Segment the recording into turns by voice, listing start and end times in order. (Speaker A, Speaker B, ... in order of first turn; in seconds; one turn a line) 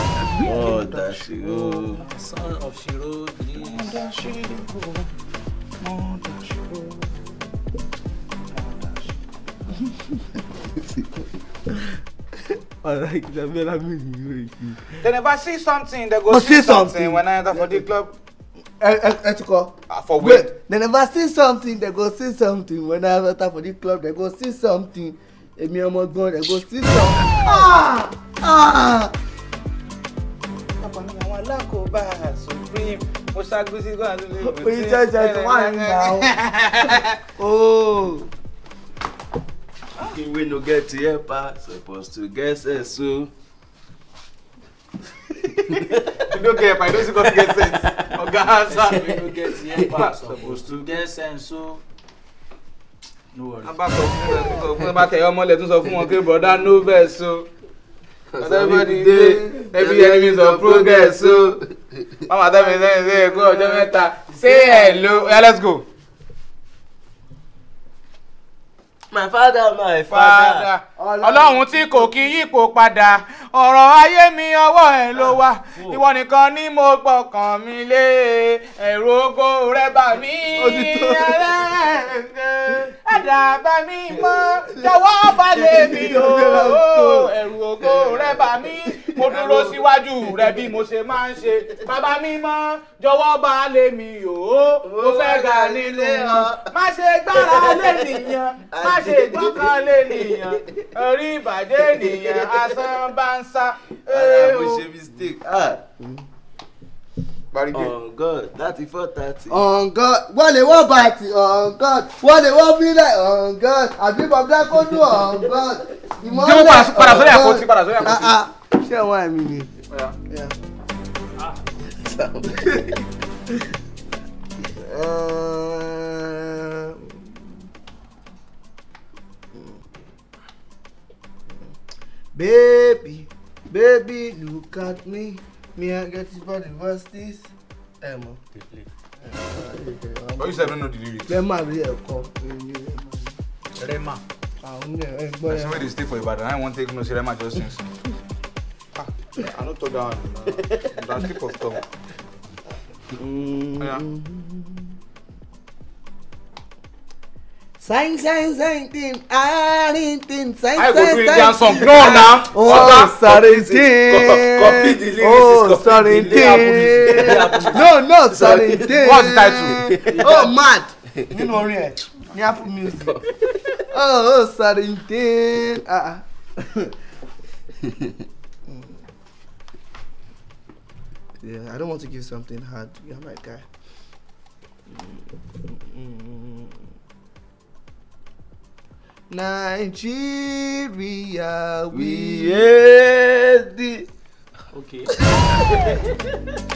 Speaker A: 0.3-2.0
Speaker B: 0.3-2.0
Speaker C: 1.8-4.0
Speaker B: 3.6-5.1
Speaker B: 5.8-7.2
Speaker B: 8.5-9.2
Speaker D: 12.4-15.0
Speaker B: 15.0-18.1
Speaker D: 16.3-17.8
Speaker D: 18.8-29.1
Speaker B: 19.9-20.5
Speaker B: 30.8-37.2
Speaker D: 34.4-36.3
Speaker D: 37.4-38.3
Speaker A: 40.0-43.3
Speaker A: 45.7-46.3
Speaker B: 46.2-50.9
Speaker A: 47.0-48.1
Speaker C: 48.7-51.8
Speaker C: 53.3-53.8
Speaker B: 53.6-57.5
Speaker A: 58.3-62.2
Speaker B: 58.4-61.5
Speaker B: 62.3-65.8
Speaker D: 62.9-63.9
Speaker D: 64.4-65.4
Speaker A: 69.1-70.7
Speaker B: 70.1-104.9
Speaker D: 71.0-72.4
Speaker A: 75.2-76.0
Speaker D: 80.6-81.8
Speaker D: 85.6-87.3
Speaker A: 87.8-88.5
Speaker A: 89.2-90.7
Speaker A: 94.8-96.7
Speaker A: 97.3-100.7
Speaker A: 101.8-103.0
Speaker A: 104.1-105.8
Speaker D: 106.0-106.3
Speaker B: 107.5-107.9
Speaker A: 107.7-109.6
Speaker D: 109.5-119.7
Speaker A: 114.8-115.3
Speaker B: 116.3-118.4
Speaker B: 119.9-120.2
Speaker D: 120.3-120.5
Speaker C: 121.4-121.6
Speaker A: 121.9-123.1
Speaker D: 124.6-127.6
Speaker D: 129.5-129.8
Speaker D: 132.3-138.4
Speaker C: 138.5-138.9
Speaker D: 139.2-140.8
Speaker B: 140.4-141.4
Speaker D: 141.3-143.4
Speaker C: 143.8-144.2
Speaker D: 144.6-145.9
Speaker B: 145.5-147.9
Speaker B: 148.9-151.8
Speaker D: 153.2-155.0
Speaker D: 157.8-173.2
Speaker B: 160.8-163.1
Speaker A: 162.1-170.5
Speaker C: 166.2-167.9
Speaker B: 169.0-169.8
Speaker C: 170.1-170.5
Speaker A: 171.1-171.5
Speaker A: 173.0-173.9
Speaker D: 173.9-176.9
Speaker A: 177.8-178.1
Speaker D: 178.7-178.9
Speaker D: 181.4-183.7
Speaker D: 184.9-186.9
Speaker D: 189.3-192.7
Speaker A: 191.9-194.1
Speaker C: 194.7-195.2